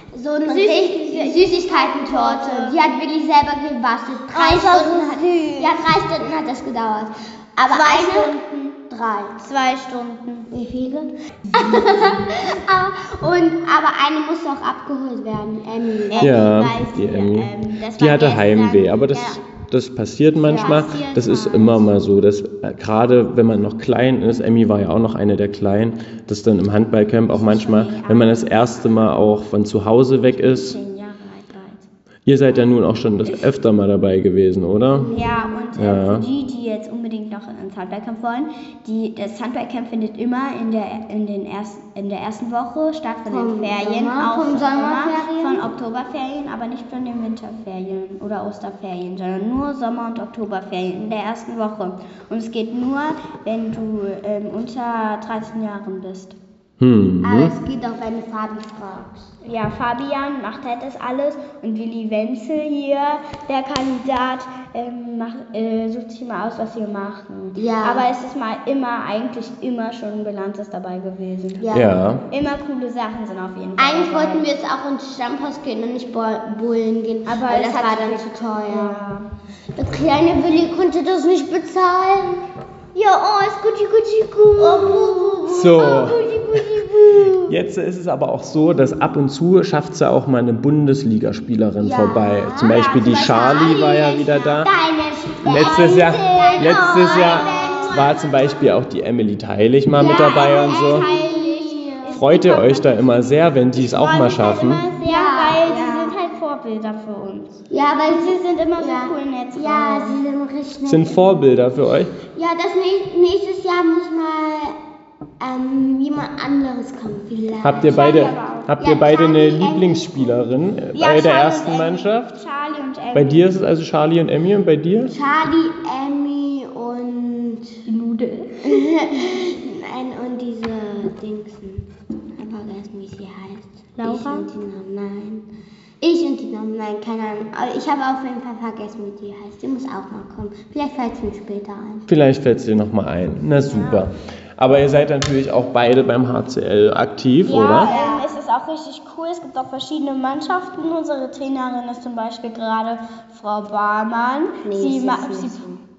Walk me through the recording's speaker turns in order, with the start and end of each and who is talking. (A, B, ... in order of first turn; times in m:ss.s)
0:00.1-0:08.4 A
0:00.4-0:02.8 B
0:04.3-0:05.8 B
0:07.7-0:08.8 B
0:08.9-0:09.4 A
0:09.4-0:10.5 B
0:10.5-0:16.4 A
0:16.1-0:19.4 B
0:16.2-0:30.8 C
0:20.4-0:22.0 B
0:20.5-0:20.8 A
0:27.3-0:29.1 B
0:30.3-0:31.9 B
0:32.3-0:35.1 C
0:34.9-0:35.7 A
0:35.1-0:56.4 B
0:35.8-0:36.3 C
0:43.3-0:45.6 A
0:56.8-0:57.5 C
0:57.2-0:59.3 A
0:59.4-1:11.6 B
1:07.6-1:08.1 A
1:11.6-1:12.0 A
1:11.7-1:12.2 C
1:12.3-1:14.5 B
1:13.8-1:19.1 A
1:17.2-1:19.3 B
1:19.8-1:22.4 A
1:23.0-1:25.5 B
1:24.6-1:27.6 A
1:25.5-1:26.4 C
1:27.4-1:34.7 C
1:31.8-1:32.8 A
1:32.6-1:34.7 B
1:34.6-1:38.1 A
1:35.4-1:41.1 C
1:36.4-1:38.2 B
1:39.9-1:42.2 A
1:40.4-1:42.9 B
1:42.1-1:44.9 C
1:43.8-1:50.2 B
1:45.0-1:46.2 A
1:47.7-1:51.4 A
1:50.9-1:52.1 C
1:52.4-1:54.8 A
1:55.4-1:58.1 A
1:57.6-2:02.4 C
1:57.8-1:58.7 B
1:58.8-2:00.4 A
2:01.0-2:03.5 B
2:03.1-2:05.1 C
2:05.1-2:07.7 A
2:07.9-2:09.3 B
2:08.6-2:11.9 A
2:12.4-2:15.4 A
2:14.0-2:14.5 B
2:16.0-2:22.0 A
2:22.1-2:27.9 C
2:23.7-2:24.0 B
2:27.5-2:35.7 B
2:27.7-2:28.3 A
2:34.6-2:35.8 A